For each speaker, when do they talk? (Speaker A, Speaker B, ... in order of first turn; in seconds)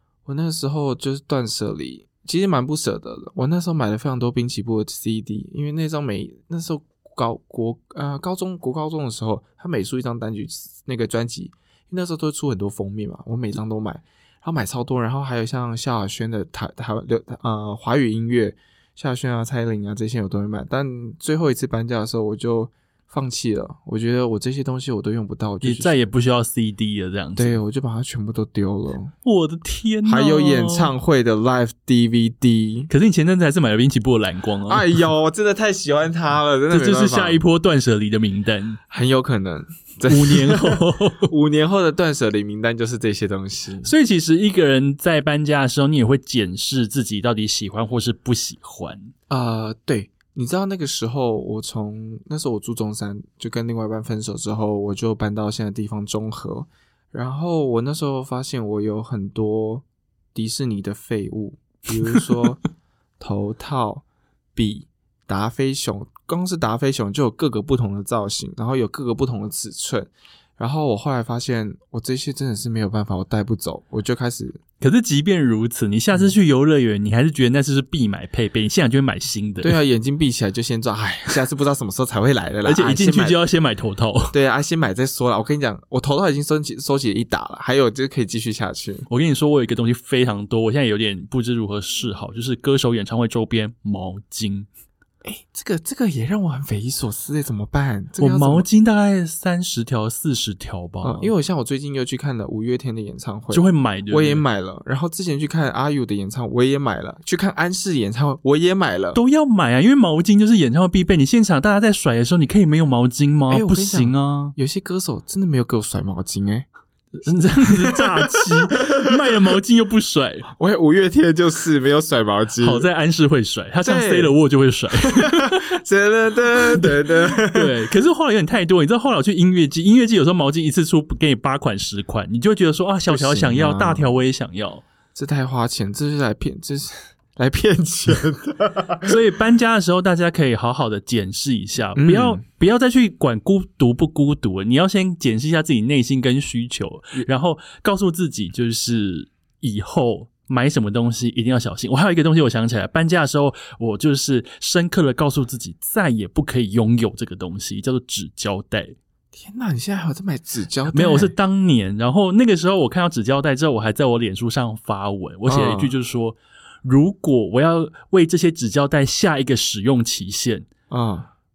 Speaker A: 0.2-25.9, 27.4-29.1, 30.1-32.9, 34.7-37.4, 38.9-43.9, 49.3-62.6, 63.2-64.0, 64.5-74.6, 79.6-83.4, 84.3-89.0, 95.2-98.7, 101.0-109.2, 113.5-116.7, 117.7-119.0, 120.5-122.8, 123.8-124.3, 125.0-127.7, 133.1-134.2, 135.1-139.1, 141.9-142.4, 159.3-161.3, 165.5-165.9, 170.9-171.3
Speaker B: 25.6-27.6, 29.2-30.9, 32.9-34.9, 36.7-38.8, 40.1-41.3, 43.8-49.1, 74.8-79.8, 82.6-84.3, 89.1-94.7, 98.2-101.3, 103.5-104.4, 109.1-114.5, 117.2-120.5, 122.6-125.7, 126.7-134.8, 139.0-158.9, 160.9-170.7